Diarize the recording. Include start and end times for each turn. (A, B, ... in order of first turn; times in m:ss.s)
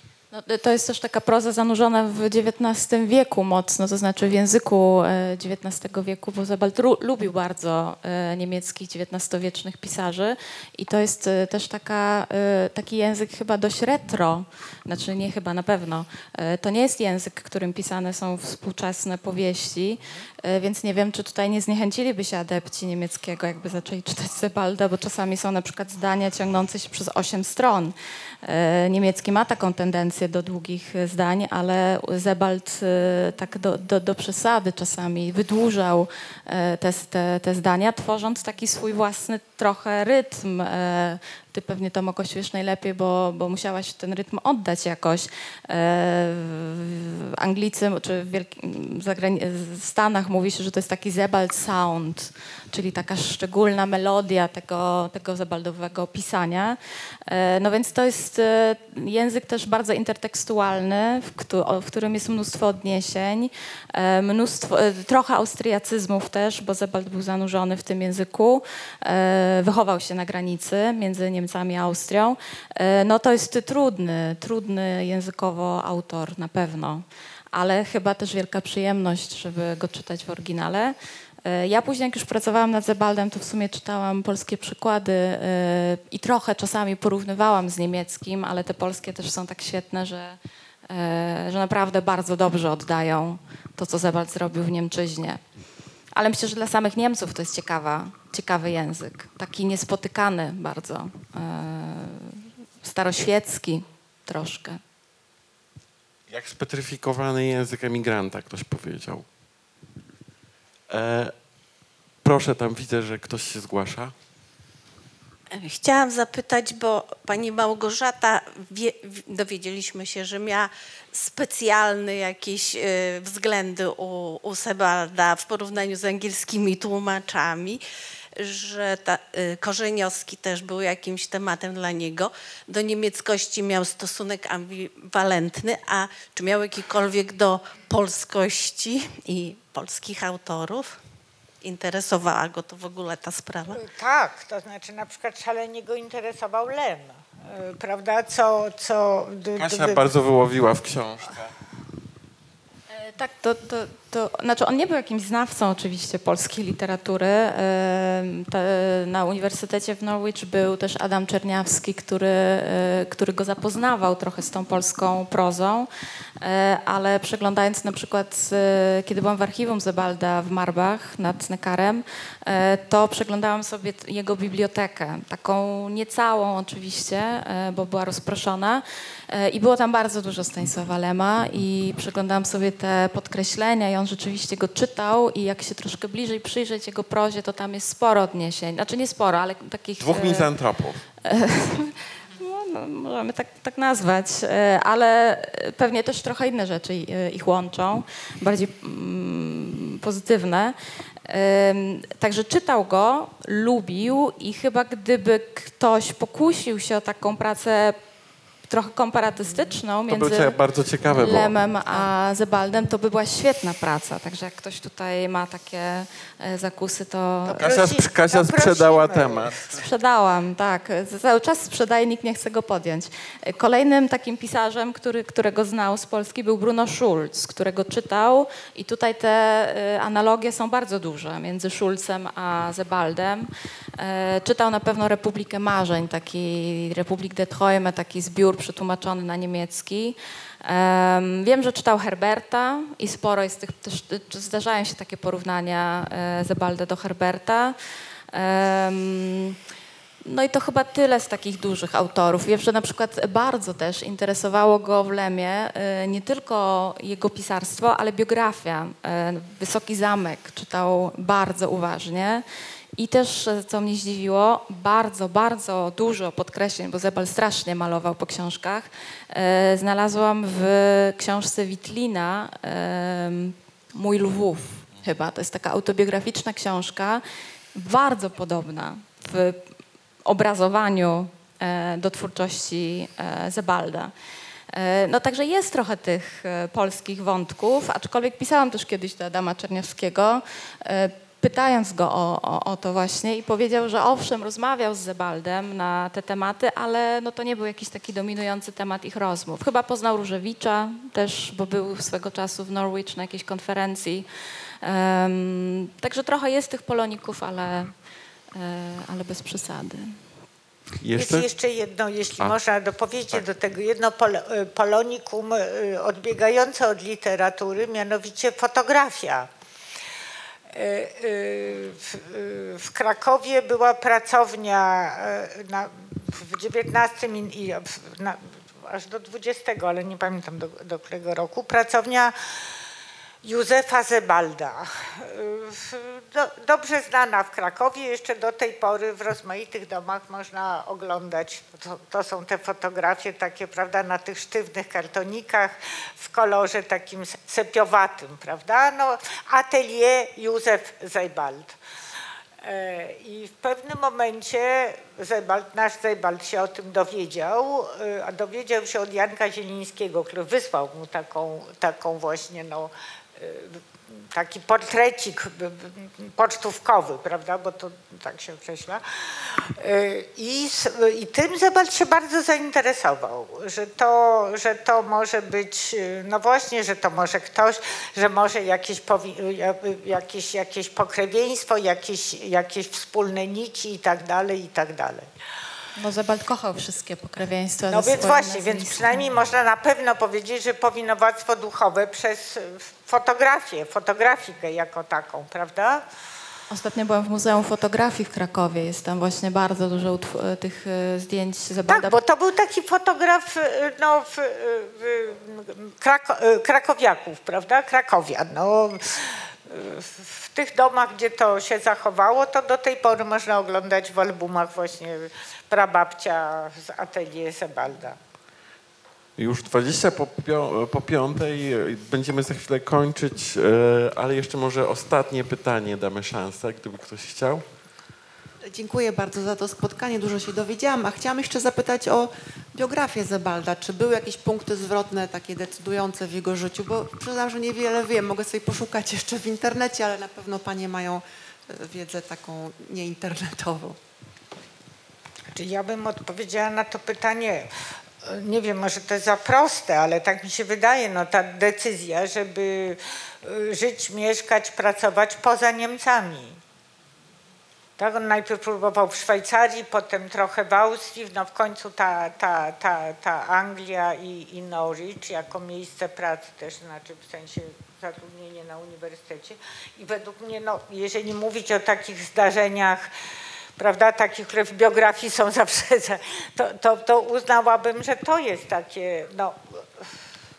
0:00.3-1:30.4 A
1:30.9-1:35.4 A
1:36.2-1:44.8 A
1:46.3-1:49.2 B
1:50.9-1:51.3 B
1:52.2-1:54.1 B
1:55.5-2:07.8 C
2:08.4-2:21.0 C
2:21.6-2:23.8 C
2:23.7-2:30.0 D
2:29.6-2:31.5 B
2:33.0-2:45.9 A
2:46.4-3:10.5 A
3:10.0-3:11.0 B
3:11.2-3:28.0 A
3:28.7-3:37.7 A
3:30.1-3:31.5 B
3:37.5-3:39.8 B
3:37.6-3:39.6 D
3:39.7-4:07.8 A
4:08.3-4:09.6 A
4:10.2-4:22.4 A
4:23.0-4:37.2 A
4:37.8-4:39.6 A
4:40.2-4:44.1 A
4:44.7-5:04.3 A
5:04.8-5:07.9 A
5:08.5-5:10.2 A
5:11.0-5:11.5 B
5:11.1-5:19.5 D
5:20.7-5:32.3 D
5:33.4-5:51.8 D
5:52.6-6:25.3 D
6:26.0-6:29.2 A
6:27.9-6:36.0 D
6:36.7-6:42.2 A
6:41.9-6:58.2 D
6:59.4-7:07.6 B
7:08.6-7:24.0 E
7:25.5-7:27.7 D
7:28.2-7:36.6 D
7:38.0-7:53.1 D
7:53.8-8:00.1 D